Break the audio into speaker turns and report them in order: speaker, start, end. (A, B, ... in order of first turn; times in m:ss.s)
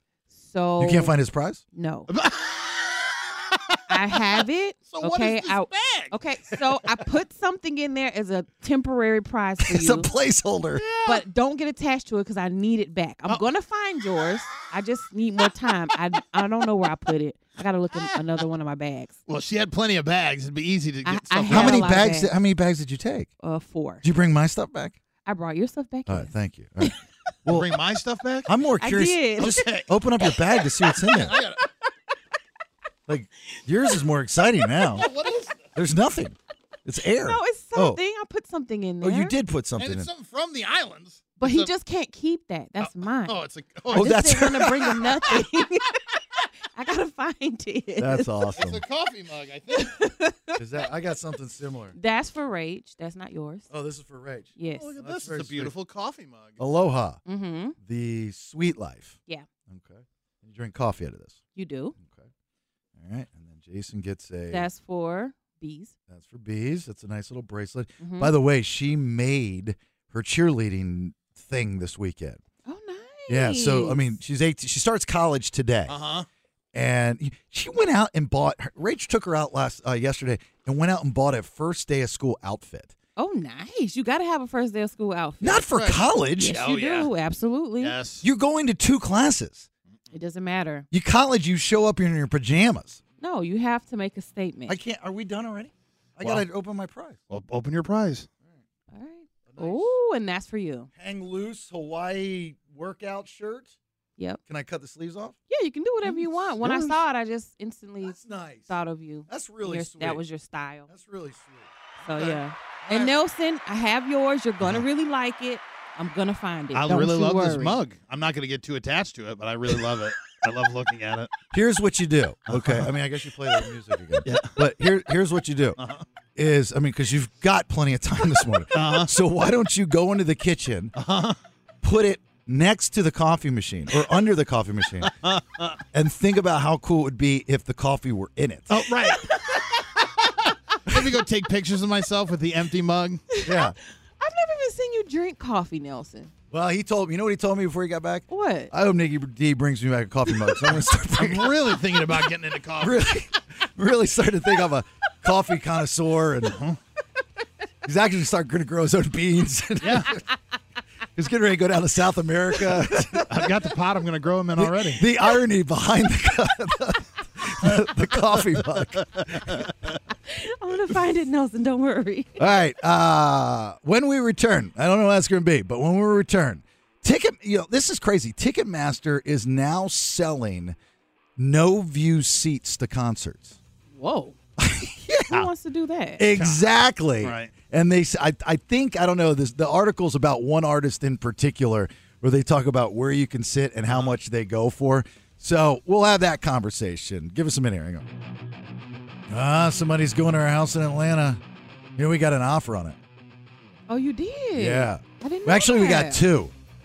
0:00.3-0:01.1 A
0:00.8-0:01.6 B
0:01.7-0:02.1 A
0:02.1-0:03.8 C
0:03.9-0:10.1 A
0:04.9-0:06.1 C
0:09.6-0:10.8 B
0:10.8-0:11.2 C
0:11.0-0:19.2 A
0:19.3-0:21.8 C
0:21.0-0:22.3 A
0:21.5-0:23.3 B
0:23.4-0:24.0 A
0:24.0-0:25.0 B
0:25.3-0:26.3 A
0:26.1-0:27.7 B
0:27.5-0:28.5 C
0:28.5-0:31.4 B
0:28.8-0:29.8 A
0:29.4-0:29.9 C
0:30.9-0:31.6 A
0:31.2-0:31.6 C
0:33.1-0:35.1 B
0:35.0-0:35.6 C
0:35.8-0:38.0 B
0:37.2-0:39.4 A
0:39.0-0:40.1 B
0:39.8-0:41.7 C
0:41.4-0:43.4 A
0:42.8-0:44.6 C
0:43.9-0:45.0 B
0:43.9-0:46.0 A
0:46.7-0:48.3 A
0:48.0-0:48.8 B
0:48.6-0:50.0 C
0:49.7-0:50.6 A
0:50.6-0:52.0 B
0:52.0-0:53.7 A
0:53.7-0:55.7 B
0:54.6-0:54.9 A
0:54.8-0:56.6 C
0:56.6-0:57.2 B
0:57.3-0:57.8 A
0:57.8-0:59.2 B
0:59.7-1:01.4 B
1:01.6-1:02.0 A
1:02.0-1:02.3 B
1:03.0-1:04.7 B
1:04.5-1:05.9 A
1:06.1-1:12.4 B
1:08.0-1:08.3 A
1:12.7-1:14.1 A
1:13.3-1:16.0 B
1:15.9-1:16.3 C
1:16.7-1:23.0 B
1:23.2-1:25.7 A
1:25.4-1:26.6 B
1:25.7-1:27.1 C
1:26.4-1:28.0 A
1:27.8-1:28.2 C
1:28.2-1:29.7 B
1:30.1-1:30.9 A
1:30.9-1:33.0 B
1:33.2-1:34.8 A
1:34.7-1:37.2 B
1:37.3-1:38.3 C
1:38.9-1:40.9 A
1:39.5-1:39.9 B
1:41.0-1:43.8 B
1:44.5-1:45.4 B
1:45.5-1:48.2 A
1:46.5-1:46.8 C
1:46.6-1:46.9 B
1:48.0-1:48.7 B
1:48.7-1:50.9 A
1:49.3-1:50.2 B
1:50.9-1:53.1 B
1:52.0-1:57.8 A
1:56.7-2:01.3 C
2:01.5-2:05.8 B
2:02.5-2:02.9 C
2:04.2-2:04.6 C
2:05.8-2:06.0 C
2:06.4-2:11.0 B
2:08.7-2:09.1 C
2:11.0-2:11.4 C
2:11.8-2:15.2 B
2:15.2-2:15.8 C
2:15.9-2:18.9 B
2:18.7-2:19.5 C
2:19.0-2:19.9 A
2:20.8-2:23.2 C
2:23.3-2:26.3 A
2:23.4-2:23.8 B
2:26.5-2:31.8 B
2:28.3-2:28.7 A
2:31.2-2:33.1 C
2:32.8-2:36.6 B
2:36.4-2:36.8 C
2:37.8-2:40.2 B
2:39.8-2:40.1 C
2:41.2-2:43.5 B
2:43.2-2:45.1 C
2:44.6-2:49.6 B
2:49.2-2:49.7 C
2:50.2-2:52.4 A
2:52.4-3:00.8 B
3:01.4-3:03.6 B
3:03.9-3:04.4 A
3:04.6-3:05.5 B
3:05.3-3:06.3 A
3:06.2-3:18.0 B
3:06.4-3:06.6 C
3:07.2-3:07.5 C
3:13.9-3:14.1 C
3:19.3-3:21.4 B
3:22.0-3:23.0 B
3:23.9-3:26.2 A
3:24.6-3:26.5 B